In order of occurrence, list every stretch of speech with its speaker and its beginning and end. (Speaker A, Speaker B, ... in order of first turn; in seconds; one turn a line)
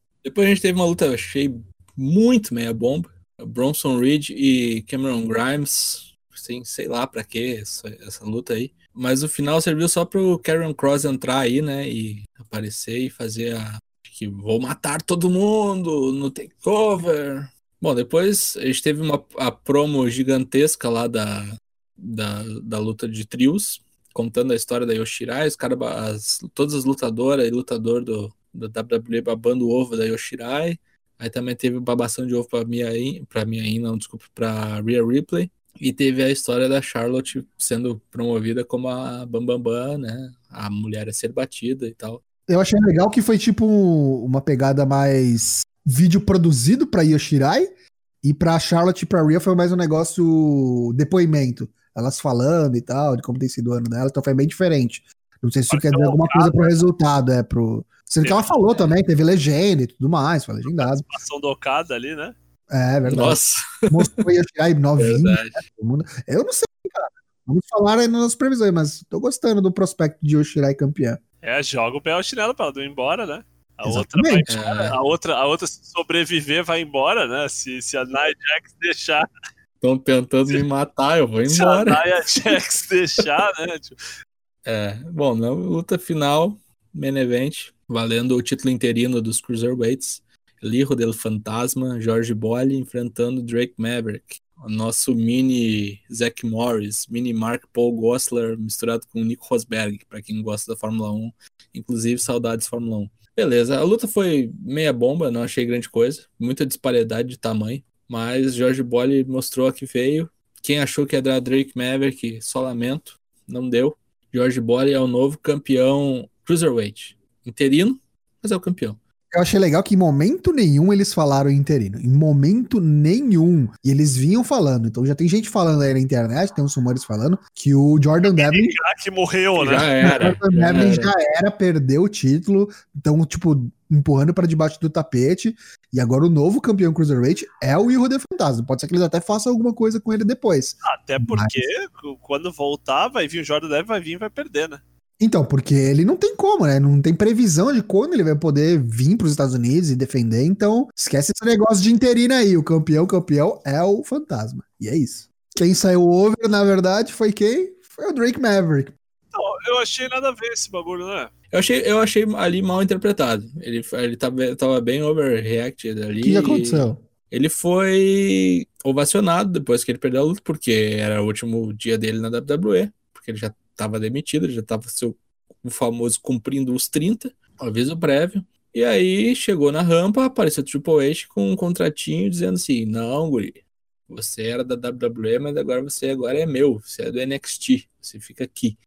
Speaker A: 0.2-42.2
Speaker B: 42.5-47.7
Speaker B: 48.2-61.0
Speaker C: 55.7-56.7
Speaker C: 58.2-58.9
Speaker C: 60.6-62.3
Speaker B: 62.7-63.4
Speaker A: 63.0-64.1
Speaker B: 63.9-71.2
Speaker A: 65.0-65.6
Speaker C: 71.4-79.2
Speaker B: 73.8-74.5
Speaker A: 74.5-75.0
Speaker A: 79.8-82.4
Speaker C: 81.4-83.9
Speaker A: 84.6-119.0
Speaker B: 119.3-128.8
Speaker C: 128.2-130.1
Speaker A: 129.6-131.1
Speaker B: 130.0-141.6
Speaker C: 140.8-144.8
Speaker B: 145.2-158.9
Speaker C: 159.3-161.3
Speaker A: 161.5-188.8
Speaker B: 166.2-167.0